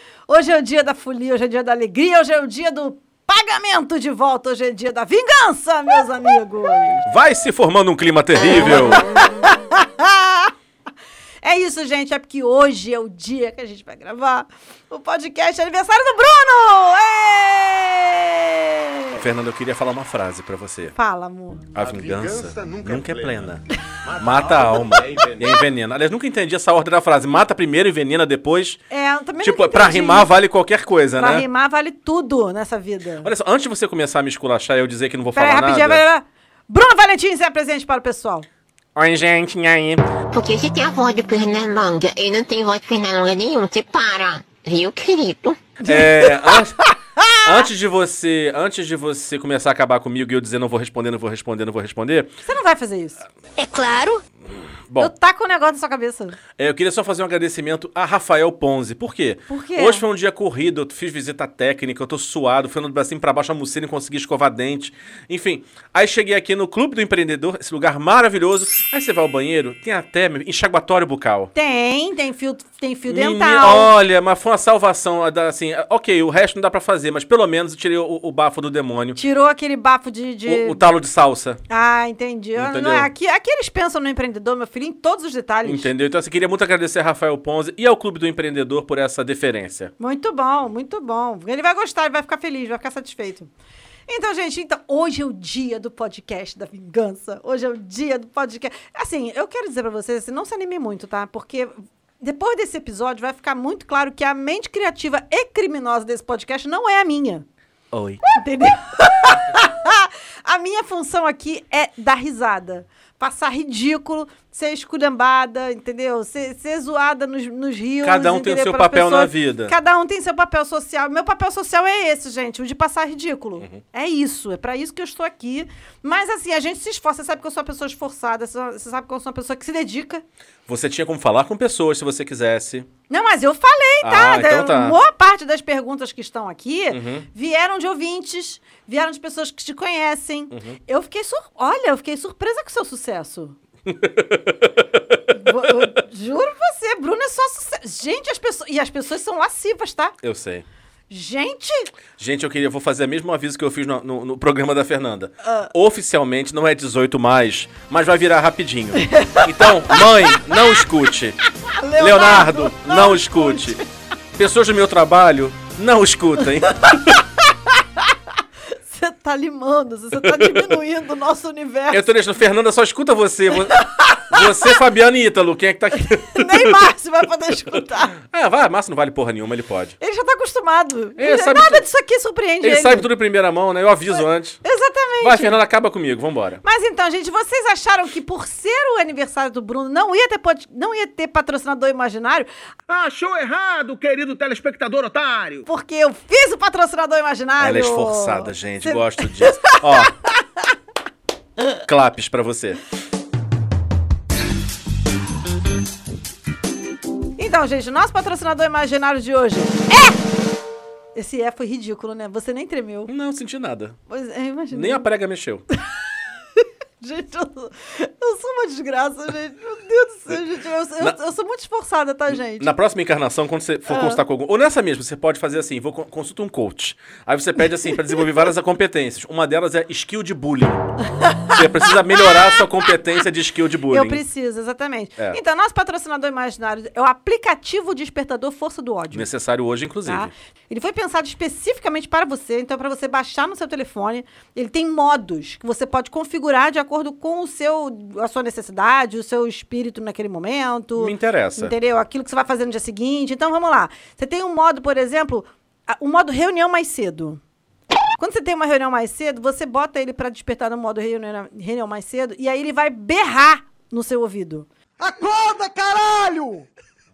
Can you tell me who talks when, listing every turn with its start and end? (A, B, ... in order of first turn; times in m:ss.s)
0:00.3-0:07.0 A
0:07.0-0:09.0 B
0:09.0-0:10.5 A
0:11.4-0:19.2 A
0:19.2-0:20.9 B
0:20.9-0:21.7 A
0:21.7-0:23.6 B
0:21.8-0:23.4 C
0:24.1-0:25.4 C
0:24.2-0:28.8 B
0:28.9-0:30.3 A
0:29.4-0:31.4 B
0:31.2-0:33.3 A
0:33.2-0:36.0 B
0:35.3-0:38.4 A
0:38.9-0:40.1 B
0:40.3-0:45.6 D
0:45.8-0:46.6 A
0:45.8-0:46.8 B
0:47.4-0:52.3 B
0:52.4-0:53.2 A
0:53.6-0:54.2 D
0:55.0-0:56.4 A
0:56.6-1:11.5 B
0:59.5-1:00.0 A
1:11.5-1:13.9 A
1:13.1-1:19.2 B
1:19.2-1:20.8 A
1:20.4-1:21.6 B
1:21.7-1:25.9 A
1:22.6-1:23.1 B
1:25.6-1:29.9 B
1:30.0-1:33.5 A
1:34.1-1:47.4 A
1:47.9-1:48.2 B
1:48.3-2:10.2 A
1:58.0-1:59.7 B
2:10.7-2:12.9 B
2:13.1-2:23.6 A
2:14.0-2:15.0 B
2:16.9-2:17.3 B
2:20.5-2:20.8 B
2:23.8-2:25.9 B
2:25.3-2:30.1 A
2:30.2-2:30.6 B
2:31.1-2:31.9 A
2:32.2-2:41.4 B
2:35.4-2:35.7 A
2:39.0-2:40.0 A
2:41.7-2:43.9 A
2:42.0-2:43.8 B
2:44.4-2:47.2 B
2:46.7-2:47.0 A
2:48.9-2:52.1 A
2:50.2-2:50.6 B
2:51.9-2:56.8 B
2:53.7-2:54.8 A
2:56.1-2:58.2 A
2:58.2-3:00.0 B
3:00.0-3:03.1 A
3:01.2-3:01.9 B
3:02.6-3:04.6 B
3:04.6-3:05.6 A
3:05.2-3:06.6 B
3:06.6-3:12.5 A
3:12.9-3:15.6 C
3:15.6-3:19.8 A
3:17.6-3:20.1 B
3:21.8-3:22.8 B
3:27.4-3:30.2 A
3:31.1-3:33.1 A
3:33.1-3:33.9 B
3:34.1-3:35.0 A
3:34.7-3:35.6 B
3:36.6-3:42.7 A
3:42.3-3:50.9 B
3:43.9-3:44.2 A
3:51.2-3:51.6 A
3:51.5-3:54.2 B
3:53.9-3:59.3 A
3:59.1-4:00.3 B
4:00.0-4:17.4 A
4:11.0-4:11.7 B
4:18.2-4:24.7 A